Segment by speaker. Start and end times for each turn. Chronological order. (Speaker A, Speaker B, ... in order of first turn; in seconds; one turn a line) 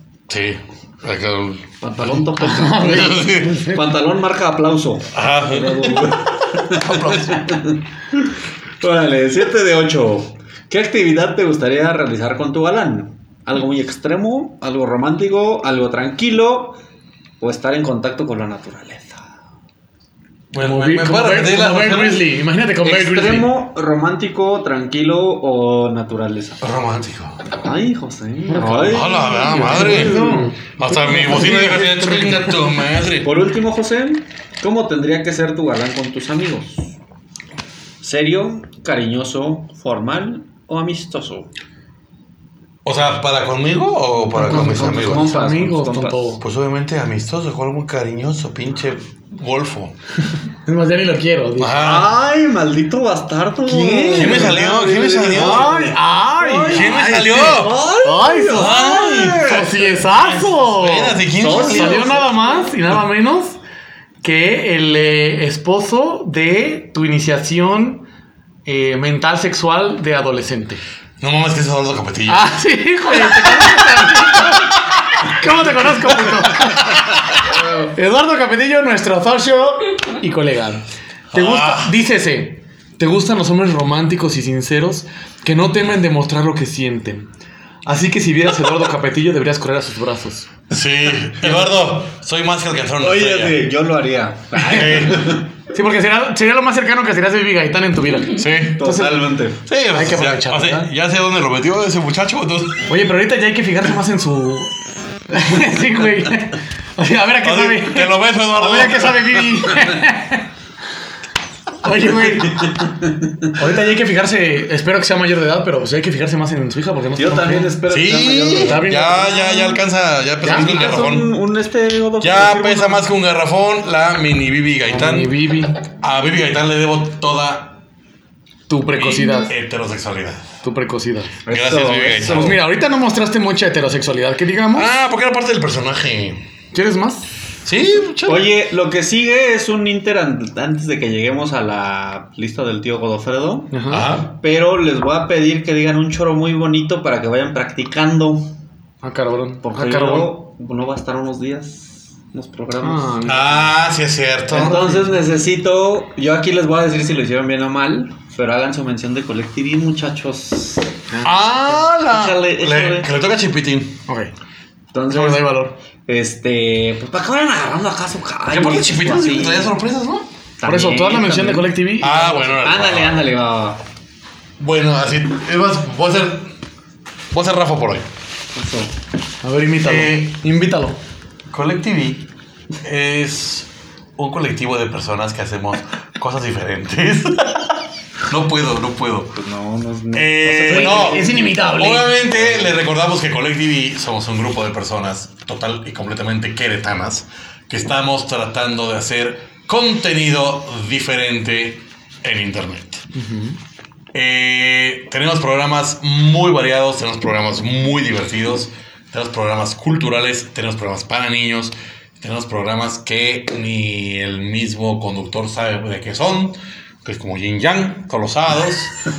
Speaker A: 0.3-2.2
Speaker B: 1.8-16.8
Speaker C: 2.3-3.8
Speaker A: 2.8-3.6
Speaker A: 5.1-7.7
Speaker B: 17.4-19.2
Speaker A: 20.5-22.3
Speaker C: 20.6-23.5
Speaker B: 22.8-26.6
Speaker A: 26.6-27.4
Speaker B: 27.6-30.5
Speaker C: 28.5-32.5
Speaker A: 28.8-33.3
Speaker B: 33.2-36.9
Speaker B: 38.0-41.5
Speaker A: 42.8-45.3
Speaker C: 44.3-46.4
Speaker B: 44.4-46.4
Speaker A: 46.4-49.9
Speaker C: 50.6-51.9
Speaker A: 51.6-52.1
Speaker B: 51.8-59.8
Speaker C: 53.6-54.6
Speaker A: 54.1-55.7
Speaker C: 55.3-58.7
Speaker A: 56.7-57.8
Speaker A: 58.5-62.2
Speaker C: 59.4-63.6
Speaker B: 61.4-62.7
Speaker C: 64.2-68.1
Speaker C: 68.7-70.8
Speaker A: 71.2-72.5
Speaker C: 72.3-77.1
Speaker A: 73.1-74.5
Speaker C: 77.7-87.3
Speaker A: 81.3-81.9
Speaker C: 87.8-90.5
Speaker A: 90.7-93.7
Speaker B: 93.0-95.5
Speaker A: 94.6-95.4
Speaker C: 94.6-95.1
Speaker C: 95.7-99.2
Speaker A: 98.3-98.9
Speaker B: 98.6-99.6
Speaker A: 99.7-102.9
Speaker C: 99.9-100.9
Speaker C: 102.9-104.7
Speaker C: 105.3-110.5
Speaker A: 107.4-109.7
Speaker C: 111.8-112.8
Speaker B: 112.6-113.3
Speaker C: 113.5-117.8
Speaker B: 117.2-119.7
Speaker A: 117.9-121.3
Speaker C: 118.6-119.5
Speaker C: 120.4-120.7
Speaker B: 120.4-123.1
Speaker A: 122.2-127.8
Speaker C: 124.9-125.8
Speaker C: 128.7-129.5
Speaker A: 128.9-130.4
Speaker C: 130.6-131.3
Speaker B: 131.4-132.6
Speaker A: 131.5-132.6
Speaker C: 132.2-134.9
Speaker A: 134.7-136.4
Speaker C: 136.7-137.3
Speaker A: 137.6-138.5
Speaker B: 138.2-143.7
Speaker C: 143.7-144.1
Speaker A: 143.9-144.3
Speaker B: 144.3-148.5
Speaker C: 149.0-150.3
Speaker B: 149.6-153.2
Speaker C: 152.8-153.7
Speaker A: 153.2-154.8
Speaker B: 154.5-160.9
Speaker C: 154.5-154.9
Speaker C: 161.1-161.6
Speaker A: 161.2-164.0
Speaker B: 161.9-163.1
Speaker C: 164.1-164.3
Speaker B: 164.9-165.5
Speaker C: 165.1-165.8
Speaker B: 166.1-169.7
Speaker A: 168.5-170.3
Speaker B: 170.6-173.8
Speaker C: 170.6-172.4
Speaker A: 172.0-173.3
Speaker A: 174.6-176.5
Speaker A: 177.3-178.1
Speaker B: 178.5-178.9
Speaker C: 179.4-181.0
Speaker A: 179.8-180.3
Speaker A: 181.5-182.2
Speaker A: 182.8-189.3
Speaker B: 189.3-191.4
Speaker A: 190.1-203.0
Speaker C: 190.6-192.1
Speaker B: 192.3-192.7
Speaker C: 203.1-203.6
Speaker A: 204.1-218.9